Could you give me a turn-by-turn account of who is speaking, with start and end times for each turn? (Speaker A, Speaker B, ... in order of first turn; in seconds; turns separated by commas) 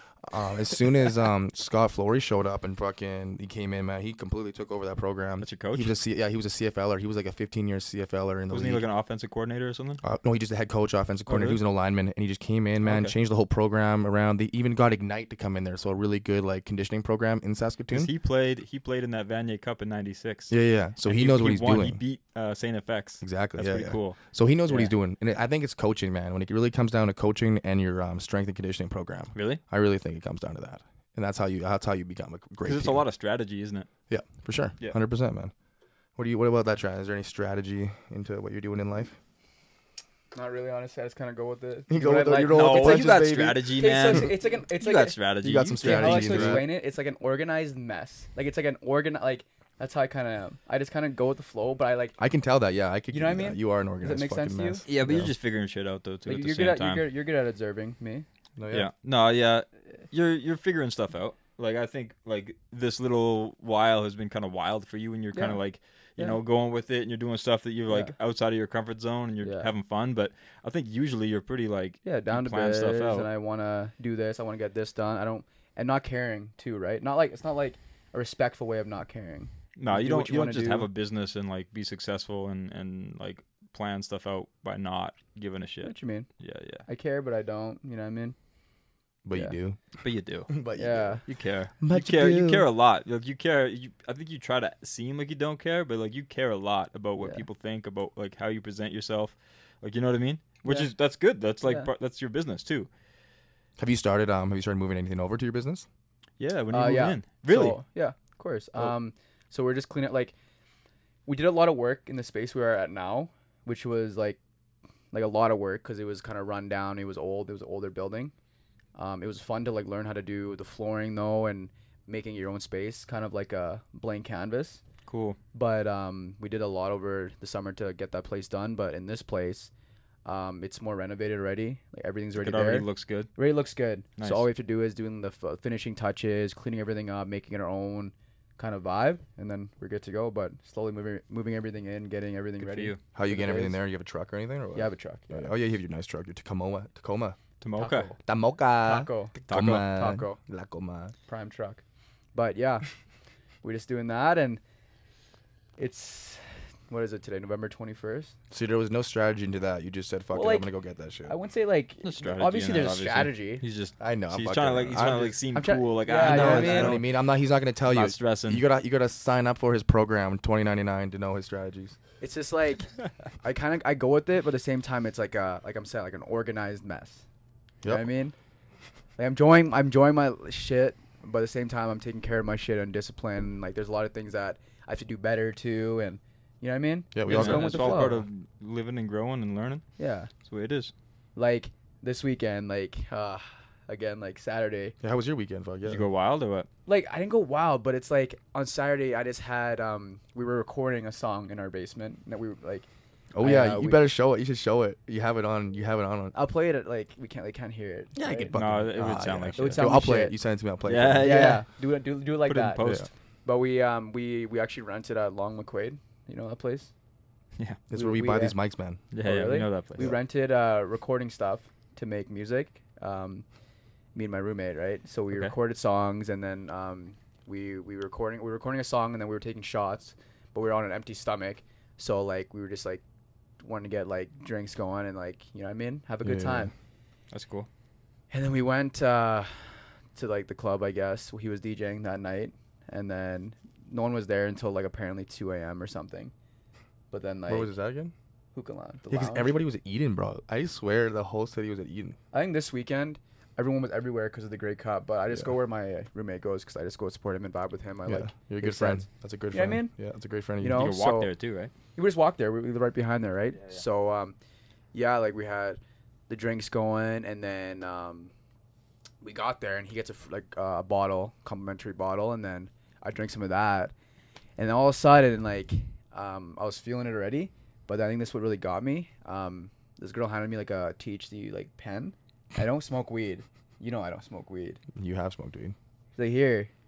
Speaker A: 0.2-8.8, Speaker B: 5.4-5.9, Speaker B: 8.5-10.0, Speaker A: 10.0-18.1, Speaker B: 11.3-11.6, Speaker B: 12.8-13.1, Speaker B: 17.9-24.9, Speaker A: 20.5-22.0, Speaker A: 23.2-33.0, Speaker B: 29.4-29.6, Speaker B: 32.6-33.9, Speaker A: 34.1-35.5, Speaker A: 36.2-39.2, Speaker C: 40.3-45.2, Speaker A: 41.9-44.3, Speaker B: 42.5-46.6, Speaker A: 45.4-46.6, Speaker C: 45.8-52.2, Speaker A: 52.2-55.3, Speaker C: 53.1-54.8, Speaker B: 54.9-57.1, Speaker C: 56.2-58.2, Speaker A: 58.6-58.9, Speaker B: 58.7-73.3, Speaker C: 65.3-65.6, Speaker C: 67.9-68.1, Speaker C: 69.4-69.7, Speaker C: 72.0-80.9, Speaker B: 79.8-86.8, Speaker C: 85.8-86.3, Speaker C: 86.9-88.4, Speaker A: 89.2-90.0, Speaker B: 90.0-90.5, Speaker A: 90.5-91.2, Speaker C: 90.8-91.2, Speaker B: 91.3-102.9, Speaker A: 91.8-92.7, Speaker C: 97.2-97.5, Speaker C: 100.7-100.9, Speaker C: 101.6-101.9, Speaker A: 103.8-105.9, Speaker B: 106.4-107.8, Speaker C: 106.7-110.3, Speaker C: 111.2-114.4, Speaker C: 115.1-118.3, Speaker C: 119.0-124.8, Speaker B: 125.1-125.4, Speaker C: 125.5-129.7, Speaker C: 130.2-143.8, Speaker B: 132.3-133.3, Speaker B: 134.2-134.5, Speaker B: 142.6-143.0, Speaker A: 143.1-147.4, Speaker C: 144.8-145.5, Speaker B: 147.6-148.1, Speaker C: 147.8-148.2, Speaker A: 148.2-151.1, Speaker C: 148.8-150.4, Speaker B: 149.5-149.9, Speaker C: 151.3-151.8, Speaker C: 152.3-152.9, Speaker C: 153.6-154.6, Speaker C: 155.8-158.3, Speaker A: 158.5-161.3, Speaker C: 160.3-160.7, Speaker C: 161.2-163.6, Speaker B: 162.0-167.1, Speaker A: 164.0-165.4, Speaker C: 165.5-167.0, Speaker A: 166.2-172.0, Speaker B: 167.9-168.6, Speaker C: 172.2-172.9, Speaker C: 173.4-177.2, Speaker C: 177.9-178.3, Speaker C: 179.2-188.2, Speaker A: 187.1-188.1, Speaker B: 187.3-189.8, Speaker C: 190.0-190.3, Speaker B: 190.4-190.9, Speaker C: 191.4-194.9, Speaker A: 195.0-196.0, Speaker B: 195.8-196.7, Speaker C: 196.9-202.9, Speaker A: 203.3-206.3, Speaker C: 203.4-204.0, Speaker C: 206.3-208.6, Speaker A: 208.2-211.6, Speaker B: 208.5-209.8, Speaker C: 209.6-210.4, Speaker B: 210.9-211.7, Speaker C: 211.2-212.9, Speaker B: 212.4-213.1, Speaker C: 213.4-216.9, Speaker A: 217.9-219.0, Speaker C: 217.9-218.6, Speaker B: 219.1-220.0, Speaker C: 219.2-223.4, Speaker C: 224.2-233.0, Speaker C: 233.6-236.7, Speaker A: 236.2-236.7, Speaker B: 237.3-237.7, Speaker C: 238.3-246.3, Speaker C: 247.1-247.7, Speaker A: 247.5-248.1, Speaker C: 248.5-249.5, Speaker A: 249.1-252.2, Speaker C: 252.3-259.9, Speaker A: 258.1-260.9, Speaker C: 260.6-261.3, Speaker B: 260.7-261.7, Speaker C: 261.9-264.4, Speaker C: 264.9-268.3, Speaker C: 269.2-273.9, Speaker C: 274.6-284.8, Speaker A: 284.9-285.8, Speaker C: 286.2-286.7